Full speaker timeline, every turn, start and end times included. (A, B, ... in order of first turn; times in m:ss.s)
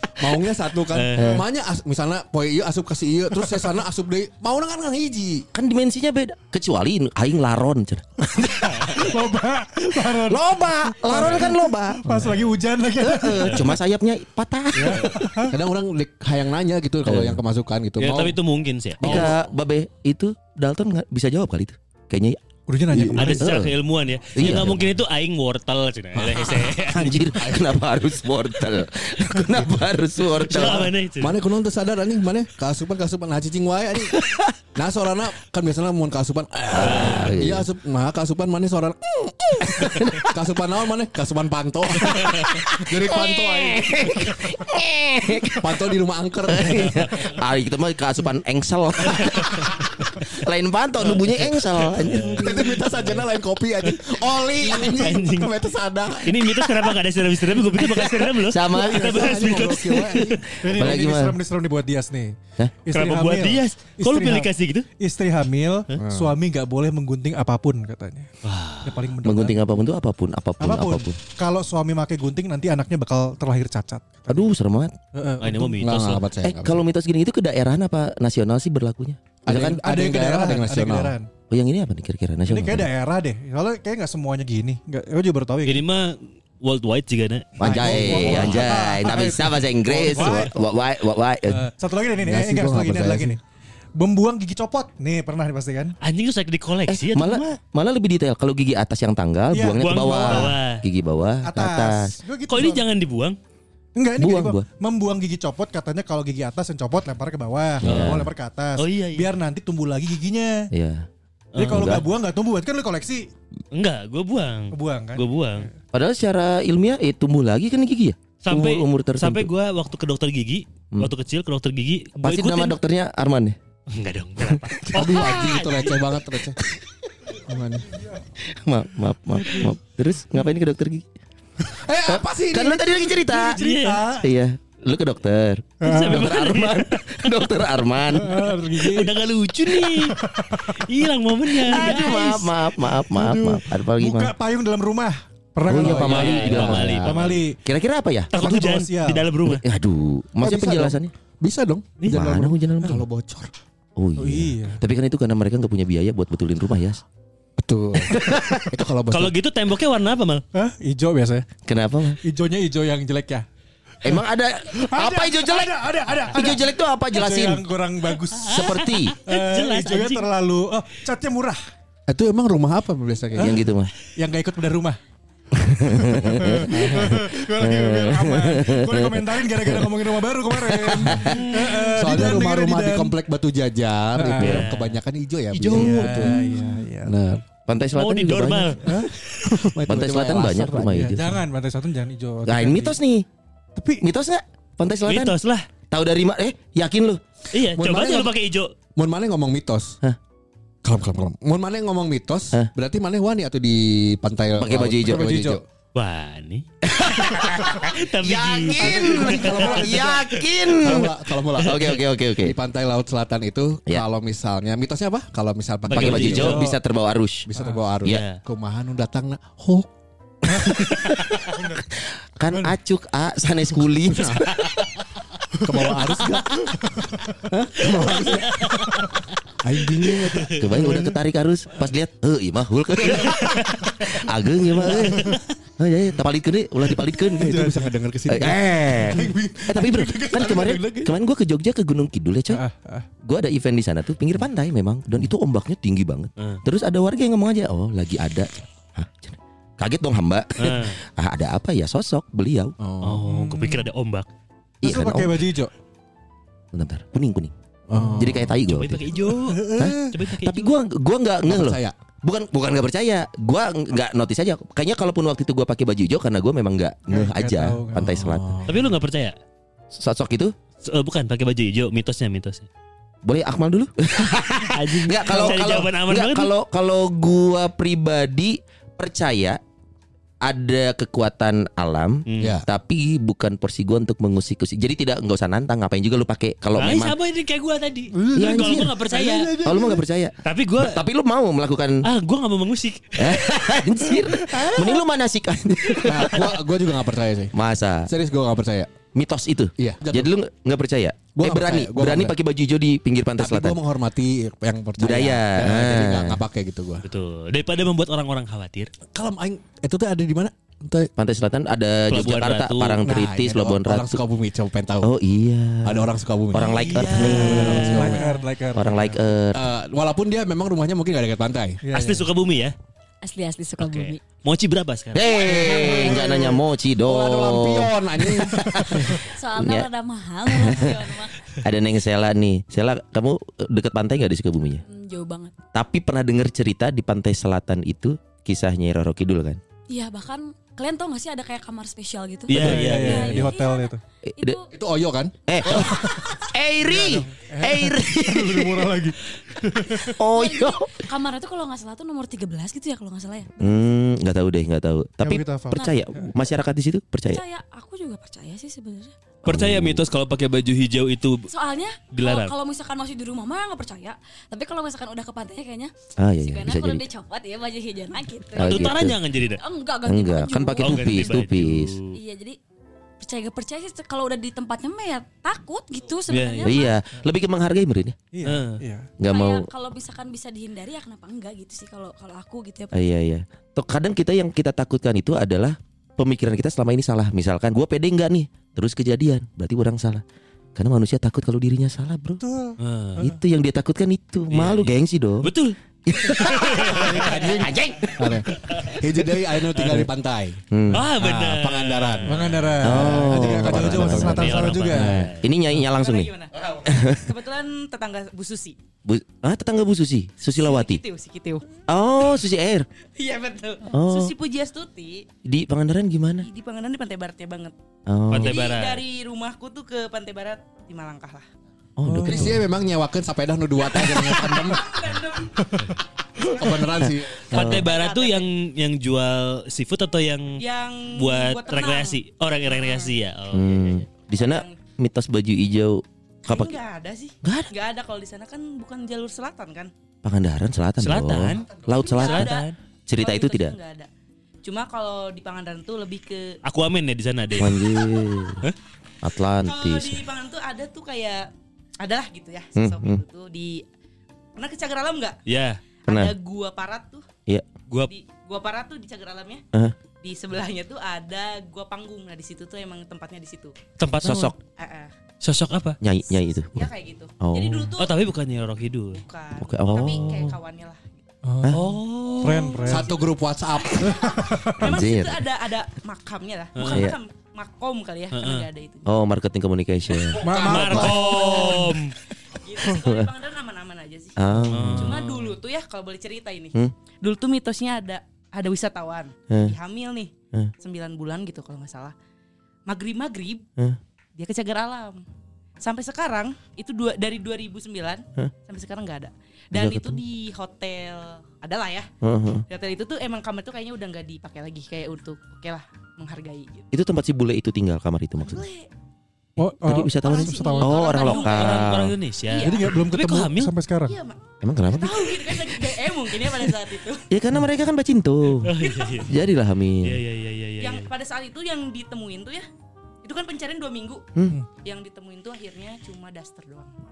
0:00.2-0:05.5 A
0:00.9-0:01.4 B
0:05.5-0:09.1 C
0:08.3-0:13.8 D
0:10.1-0:12.0 C
0:13.0-0:15.2 C
0:14.8-0:15.5 D
0:15.5-0:18.4 A
0:17.0-0:17.4 C
0:18.0-0:19.3 B
0:19.0-0:19.4 A
0:19.0-0:22.4 C
0:22.7-0:23.4 D
0:22.9-0:23.5 A
0:23.2-0:27.3 B
0:23.3-0:23.7 C
0:24.4-0:24.9 C
0:26.2-0:27.8 A
0:26.9-0:30.9 C
0:29.4-0:29.8 A
0:30.4-0:31.4 B
0:30.5-0:34.2 A
0:34.1-0:34.6 C
0:34.8-0:44.3 A
0:36.7-0:37.7 C
0:36.7-0:37.4 B
0:39.6-0:40.3 C
0:42.0-0:45.8 C
0:42.2-0:42.5 B
0:45.6-0:47.3 A
0:46.5-0:52.5 C
0:49.2-0:49.7 A
0:52.0-0:52.6 B
0:52.1-0:53.2 D
0:52.4-1:01.0 A
0:54.7-0:55.5 B
0:56.2-1:00.3 B
0:58.4-0:59.6 C
0:59.5-1:08.3 D
1:00.2-1:01.4 C
1:02.9-1:04.9 B
1:06.0-1:06.4 A
1:08.4-1:08.9 B
1:08.8-1:09.8 D
1:09.2-1:11.2 C
1:10.6-1:14.4 D
1:14.3-1:15.0 C
1:15.1-1:15.8 D
1:15.4-1:16.3 B
1:15.8-1:16.8 A
1:16.4-1:19.8 C
1:19.5-1:21.2 A
1:19.8-1:21.3 D
1:21.5-1:22.9 C
1:22.5-1:25.8 D
1:25.7-1:27.6 B
1:27.6-1:31.6 C
1:27.6-1:30.6 D
1:27.7-1:28.6 A
1:28.1-1:28.6 B
1:30.1-1:30.5 B
1:31.5-1:33.4 D
1:32.2-1:33.4 A
1:34.0-1:36.0 D
1:36.0-1:37.5 B
1:36.9-1:42.1 C
1:39.5-1:40.6 D
1:39.8-1:40.8 B
1:41.4-1:42.8 D
1:42.5-1:43.4 B
1:44.0-1:50.7 D
1:44.2-1:44.6 C
1:47.8-1:48.3 C
1:47.8-1:48.2 B
1:48.8-1:49.3 B
1:50.7-1:51.1 C
1:51.6-1:53.3 D
1:51.6-1:51.9 B
1:51.6-1:52.0 C
1:53.7-1:55.7 B
1:54.7-1:55.7 D
1:55.9-1:59.5 C
1:58.4-2:02.8 B
2:02.2-2:03.6 C
2:03.9-2:06.7 B
2:04.5-2:05.2 C
2:04.9-2:06.6 A
2:07.5-2:07.9 A
2:08.4-2:11.0 C
2:11.7-2:13.4 A
2:12.1-2:13.6 C
2:13.3-2:14.3 D
2:13.6-2:14.0 B
2:14.1-2:18.5 C
2:15.8-2:17.2 B
2:15.8-2:16.3 D
2:18.1-2:19.1 D
2:18.8-2:22.5 B
2:19.7-2:20.8 D
2:21.6-2:27.6 D
2:21.6-2:24.3 C
2:25.7-2:28.3 C
2:25.8-2:27.4 B
2:25.8-2:26.8 A
2:28.3-2:29.6 B
2:28.4-2:29.2 D
2:29.4-2:31.1 C
2:30.4-2:33.5 A
2:32.0-2:32.2 B
2:32.1-2:33.0 C
2:34.0-2:37.0 C
2:34.2-2:34.8 D
2:37.6-2:39.4 A
2:38.1-2:38.6 C
2:39.1-2:40.4 B
2:40.5-2:41.5 D
2:41.7-2:42.2 C
2:42.2-2:43.4 D
2:44.0-2:45.8 C
2:44.7-2:51.6 D
2:46.3-2:47.6 C
2:48.3-2:50.2 B
2:48.5-2:49.1 C
2:52.1-2:53.7 A
2:53.4-2:55.0 D
2:53.4-2:53.9 C
2:55.6-2:59.4 C
2:56.0-3:03.1 D
2:56.6-2:57.2 A
3:00.7-3:01.4 C
3:00.9-3:01.3 A
3:01.3-3:02.0 B
3:02.0-3:07.4 A
3:04.2-3:04.6 D
3:04.4-3:05.0 B
3:05.6-3:06.1 C
3:05.6-3:07.1 D
3:06.4-3:06.7 E
3:07.7-3:08.8 C
3:08.0-3:09.6 B
3:08.8-3:09.1 D
3:09.5-3:11.3 A
3:09.9-3:11.3 C
3:11.1-3:13.0 D
3:12.5-3:13.2 C
3:13.8-3:14.1 D
3:14.0-3:15.4 C
3:15.0-3:15.7 B
3:15.9-3:17.2 C
3:17.5-3:18.7 B
3:17.7-3:18.3 A
3:19.0-3:20.0 A
3:20.8-3:25.6 A
3:24.6-3:25.5 C
3:25.1-3:25.6 D
3:25.9-3:30.9 B
3:26.9-3:32.6 C
3:28.8-3:30.1 D
3:28.8-3:30.0 A
3:30.7-3:36.8 A
3:35.9-3:36.7 B
3:35.9-3:37.5 C
3:36.4-3:36.8 D
3:37.4-3:39.9 A
3:37.6-3:37.8 D
3:38.1-3:38.4 B
3:40.5-3:41.8 D
3:40.6-3:44.9 C
3:44.1-3:44.5 A
3:45.6-3:46.0 D
3:45.6-3:46.7 A
3:46.8-3:47.4 D
3:47.4-3:48.8 A
3:48.6-3:49.2 D
3:49.6-3:51.0 A
3:50.5-3:57.7 C
3:50.8-3:51.1 D
3:54.9-3:55.4 D
3:57.2-4:01.2 A
3:57.4-3:57.9 D
3:58.3-4:02.6 C
4:02.5-4:03.1 D
4:03.2-4:12.8 C
4:10.6-4:11.0 B
4:12.8-4:13.2 A
4:13.0-4:14.3 B
4:13.2-4:13.9 D
4:14.8-4:15.4 C
4:14.8-4:15.7 D
4:16.7-4:17.5 C
4:17.9-4:18.6 A
4:17.9-4:18.4 D
4:18.2-4:19.0 C
4:18.6-4:20.8 B
4:19.3-4:20.2 D
4:19.8-4:28.6 C
4:21.5-4:22.0 A
4:27.1-4:28.2 D
4:28.0-4:28.9 A
4:28.7-4:29.3 B
4:29.9-4:30.5 C
4:30.8-4:32.7 B
4:33.2-4:39.6 C
4:34.7-4:36.5 B
4:40.4-4:47.2 C
4:42.3-4:42.6 B
4:42.4-4:42.7 A
4:46.8-4:49.6 B
4:48.1-4:50.0 D
4:48.4-4:48.9 C
4:49.6-4:52.0 C
4:50.4-4:51.0 B
4:52.0-4:53.6 B
4:53.2-4:56.6 C
4:54.5-4:54.9 D
4:56.0-4:57.5 A
4:57.5-4:58.1 C
4:58.1-4:58.9 A
4:59.2-5:03.8 C
4:59.8-5:00.3 A
5:01.4-5:02.4 A
5:03.4-5:07.0 A
5:05.0-5:06.4 C
5:07.0-5:08.9 B
5:09.1-5:11.1 A
5:11.2-5:14.2 C
5:12.1-5:13.0 B
5:13.0-5:15.1 A
5:15.0-5:18.2 C
5:15.8-5:18.2 A
5:16.6-5:19.2 D
5:17.0-5:18.2 B
5:17.9-5:18.4 E
5:18.7-5:19.6 C
5:19.5-5:21.8 A
5:21.8-5:22.3 D
5:21.9-5:22.8 B
5:23.2-5:24.2 E
5:23.8-5:25.6 B
5:25.1-5:29.9 C
5:25.4-5:26.5 D
5:25.5-5:26.0 E
5:25.8-5:29.2 A
5:29.3-5:31.6 E
5:30.5-5:31.0 C
5:31.6-5:34.8 C
5:34.9-5:35.6 E
5:35.7-5:39.6 C
5:39.9-5:44.7 E
5:42.5-5:43.5 B
5:42.5-5:44.0 D
5:44.3-5:44.6 C
5:44.7-5:46.1 A
5:45.5-5:48.9 C
5:45.7-5:50.2 D
5:50.1-5:51.0 C
5:50.3-5:53.8 E
5:53.6-5:57.4 C
5:55.2-5:56.3 D
5:57.3-5:59.2 E
5:59.4-6:00.0 C
5:59.5-6:01.5 B
6:01.5-6:11.5 E
6:02.1-6:02.5 B
6:06.2-6:07.0 C
6:08.6-6:09.2 C
6:08.6-6:09.6 B
6:10.0-6:12.0 C
6:10.8-6:12.1 B
6:12.1-6:12.6 E
6:13.2-6:17.0 E
6:16.3-6:16.8 B
6:16.6-6:18.2 C
6:18.3-6:19.1 D
6:18.4-6:18.8 B
6:19.2-6:19.7 C
6:19.2-6:22.9 E
6:22.9-6:30.2 C
6:30.8-6:32.4 C
6:32.4-6:33.4 D
6:32.8-6:33.2 B
6:33.2-6:35.5 C
6:34.5-6:37.4 B
6:36.0-6:38.4 C
6:37.0-6:37.6 D
6:37.1-6:45.3 A
6:38.7-6:39.0 B
6:39.7-6:40.1 B
6:40.7-6:41.1 C
6:40.9-6:43.2 B
6:42.3-6:45.2 D
6:42.8-6:47.4 C
6:44.1-6:45.4 B
6:45.8-6:48.8 F
6:49.0-6:51.0 C
6:50.5-6:51.7 F
6:51.9-6:52.9 C
6:53.2-6:55.3 F
6:53.9-6:54.4 C
6:55.4-6:56.5 C
6:56.4-6:57.7 F
6:58.1-6:58.6 C
6:58.3-6:59.0 B
6:58.4-7:01.4 F
7:02.0-7:02.6 C
7:02.1-7:02.6 D
7:02.2-7:04.9 A
7:03.9-7:05.7 F
7:05.6-7:06.0 D
7:06.4-7:08.5 F
7:06.5-7:07.6 A
7:07.5-7:13.9 B
7:07.5-7:07.9 C
7:10.6-7:13.1 F
7:13.5-7:16.8 C
7:14.2-7:14.8 F
7:16.4-7:19.9 F
7:17.4-7:17.7 C
7:20.2-7:22.6 C
7:21.0-7:22.8 B
7:21.8-7:24.1 F
7:23.1-7:23.8 C
7:24.6-7:26.6 F
7:26.6-7:28.0 B
7:27.6-7:28.6 C
7:29.2-7:30.2 C
7:29.6-7:31.5 F
7:32.0-7:33.8 F
7:32.8-7:33.2 C
7:34.6-7:35.4 F
7:35.5-7:35.8 B
7:36.0-7:37.3 F
7:36.1-7:36.3 C
7:38.1-7:39.6 F
7:40.2-7:43.9 F
7:44.0-7:44.5 B
7:44.1-7:44.6 C
7:44.7-7:45.1 F
7:45.4-7:46.0 B
7:46.0-7:46.9 C
7:46.7-7:48.2 F
7:47.4-7:47.9 C
7:48.0-7:49.2 B
7:49.1-7:51.2 F
7:49.6-7:50.6 C
7:49.9-7:50.4 B
7:51.4-7:51.8 D
7:51.7-7:52.7 B
7:52.4-7:53.2 D
7:52.4-7:53.3 F
7:52.9-7:54.2 A
7:54.0-7:59.1 F
7:54.0-7:54.8 D
7:54.8-7:55.5 C
7:56.8-7:57.1 B
7:56.8-7:57.2 C
7:58.3-7:58.7 B
7:59.1-8:01.1 C
8:00.1-8:01.9 F
8:00.4-8:01.9 D
8:00.4-8:02.1 B
8:00.5-8:01.1 A
8:02.6-8:12.1 F
8:03.0-8:03.3 C
8:04.4-8:05.2 C
8:04.7-8:05.6 B
8:09.5-8:09.8 C
8:12.9-8:13.6 F
8:14.4-8:15.2 F
8:15.8-8:22.1 F
8:19.7-8:20.2 C
8:22.2-8:22.6 C
8:22.7-8:26.9 F
8:26.9-8:28.6 C
8:28.4-8:28.9 F
8:29.6-8:31.1 D
8:29.8-8:32.2 C
8:30.2-8:33.0 F
8:31.2-8:33.7 B
8:32.6-8:34.2 D
8:34.1-8:37.3 F
8:34.6-8:35.6 C
8:37.3-8:38.7 C
8:38.6-8:39.3 B
8:38.8-8:39.3 F
8:39.3-8:40.2 C
8:40.0-8:41.1 B
8:40.8-8:42.7 F
8:43.2-8:47.0 F